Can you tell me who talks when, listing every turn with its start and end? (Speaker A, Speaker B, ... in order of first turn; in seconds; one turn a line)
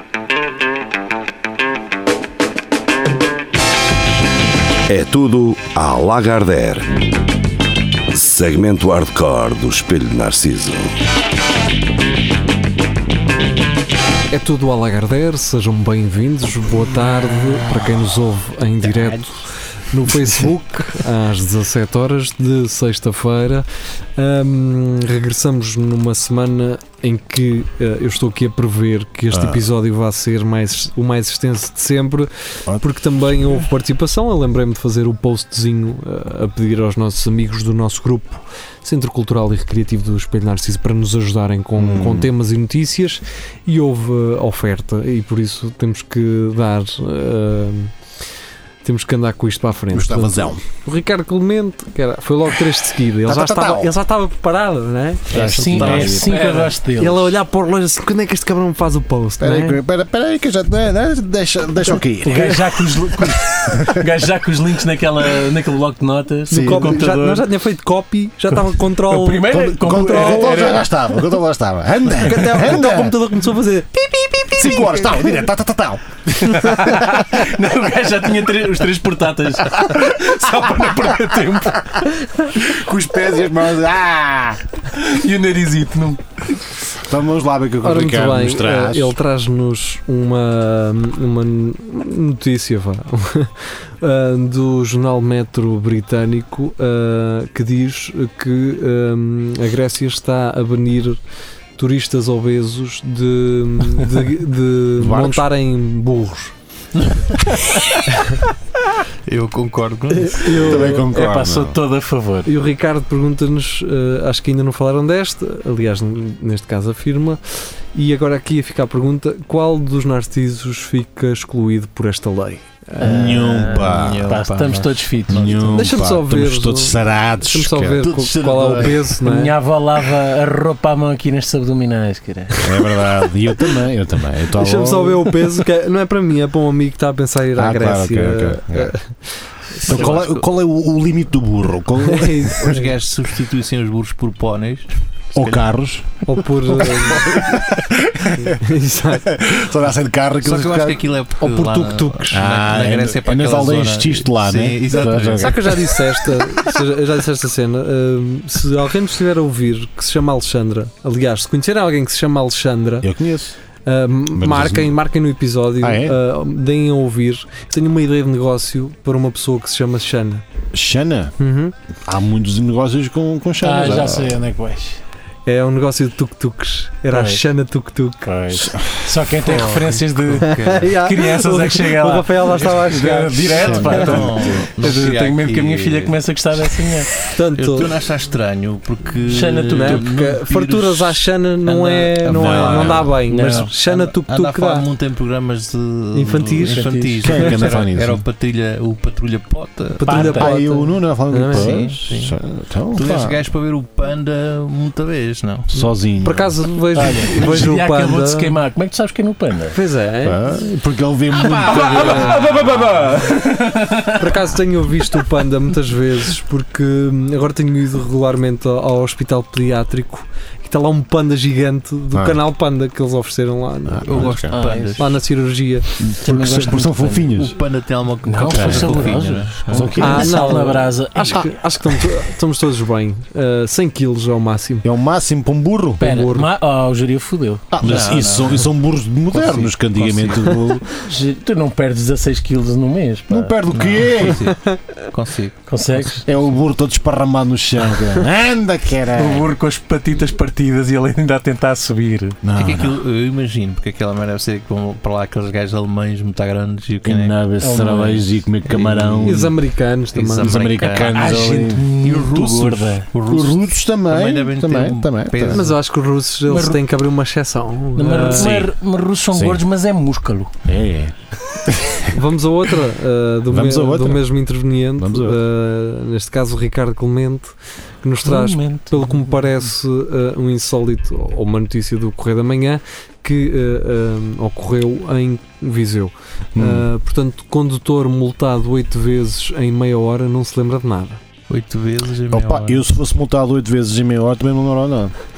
Speaker A: 4.9-6.9
Speaker A: 8.1-10.9
Speaker B: 14.3-47.9
Speaker C: 18.8-19.2
Speaker C: 29.3-29.6
Speaker C: 32.7-33.7
Speaker C: 41.8-42.3
Speaker B: 48.8-55.6
Speaker C: 49.9-50.6
Speaker C: 53.2-53.9
Speaker C: 55.3-56.4
Speaker D: 55.3-56.8
Speaker E: 55.4-57.3
Speaker B: 57.0-59.8
Speaker C: 59.4-62.7
Speaker E: 62.2-67.5
Speaker C: 63.7-64.0
Speaker B: 66.5-70.7
Speaker C: 66.5-67.0
Speaker E: 68.5-70.9
Speaker C: 69.5-73.2
Speaker B: 72.1-75.4
Speaker C: 74.5-77.5
Speaker E: 76.3-82.3
Speaker C: 79.8-81.3
Speaker C: 82.5-84.6
Speaker E: 84.9-86.4
Speaker C: 87.0-89.2
Speaker B: 87.8-101.2
Speaker B: 101.8-106.5
Speaker C: 105.0-105.5
Speaker B: 108.1-108.4
Speaker D: 109.2-110.6
Speaker B: 110.2-111.0
Speaker E: 110.5-112.5
Speaker C: 110.6-111.8
Speaker B: 112.5-123.3
Speaker E: 123.0-125.8
Speaker C: 123.0-124.4
Speaker D: 123.8-126.0
Speaker C: 125.3-129.0
Speaker B: 125.7-129.6
Speaker D: 128.6-128.9
Speaker E: 128.8-132.9
Speaker C: 132.6-135.3
Speaker B: 134.5-140.3
Speaker C: 137.6-138.9
Speaker C: 139.9-142.9
Speaker D: 139.9-140.3
Speaker B: 142.0-142.8
Speaker D: 142.6-145.7
Speaker C: 145.3-156.7
Speaker B: 146.3-147.4
Speaker B: 148.4-149.4
Speaker D: 150.4-155.8
Speaker B: 151.6-152.4
Speaker B: 155.4-163.1
Speaker C: 163.0-163.6
Speaker B: 163.8-170.4
Speaker C: 164.3-164.9
Speaker C: 165.8-166.2
Speaker C: 170.7-171.3
Speaker B: 171.4-171.7
Speaker C: 172.1-174.4
Speaker E: 173.6-175.0
Speaker B: 175.5-178.7
Speaker E: 177.1-177.4
Speaker C: 178.5-179.1
Speaker E: 179.0-187.1
Speaker D: 179.4-180.9
Speaker B: 180.4-184.2
Speaker C: 183.6-184.5
Speaker D: 183.9-186.2
Speaker B: 187.2-187.9
Speaker D: 187.6-193.1
Speaker E: 189.3-190.1
Speaker B: 189.7-194.9
Speaker C: 192.2-193.2
Speaker E: 193.3-193.7
Speaker D: 193.9-200.4
Speaker B: 196.1-197.6
Speaker E: 196.7-197.0
Speaker C: 197.2-198.2
Speaker B: 200.0-202.0
Speaker E: 200.1-200.6
Speaker C: 200.2-203.4
Speaker D: 201.5-202.4
Speaker D: 202.9-205.8
Speaker C: 205.7-206.6
Speaker B: 206.2-208.6
Speaker E: 206.9-209.8
Speaker C: 207.3-207.6
Speaker B: 209.7-210.6
Speaker C: 210.2-213.0
Speaker D: 211.4-213.1
Speaker E: 211.4-214.3
Speaker B: 211.7-212.9
Speaker B: 214.2-224.4
Speaker C: 222.1-222.4
Speaker C: 223.9-224.6
Speaker D: 224.1-225.1
Speaker E: 224.5-225.2
Speaker B: 225.0-225.9
Speaker C: 226.0-227.6
Speaker E: 226.2-227.3
Speaker D: 227.2-230.1
Speaker E: 228.3-231.5
Speaker C: 228.4-230.5
Speaker B: 230.0-234.8
Speaker C: 234.8-236.0
Speaker B: 236.0-236.5
Speaker E: 236.0-238.7
Speaker C: 237.7-240.9
Speaker D: 237.8-238.7
Speaker D: 239.3-240.6
Speaker E: 241.0-243.5
Speaker C: 243.3-244.5
Speaker D: 243.7-245.7
Speaker B: 244.5-244.8
Speaker E: 245.7-246.2
Speaker C: 246.2-249.5
Speaker E: 249.2-252.4
Speaker C: 252.4-253.0
Speaker D: 252.6-257.4
Speaker C: 257.0-259.6
Speaker E: 257.6-258.3
Speaker D: 258.7-259.5
Speaker B: 259.2-260.6
Speaker D: 260.1-261.4
Speaker C: 260.4-265.7
Speaker E: 261.0-263.1
Speaker D: 262.0-265.7
Speaker B: 265.5-268.6
Speaker E: 266.5-266.8
Speaker E: 267.9-270.6
Speaker D: 268.2-268.7
Speaker C: 269.3-269.6
Speaker C: 270.6-272.2
Speaker B: 272.1-291.2
Speaker C: 273.5-274.3
Speaker C: 275.0-275.4
Speaker E: 278.2-279.5
Speaker C: 286.6-286.9
Speaker D: 291.5-292.8
Speaker C: 292.3-295.1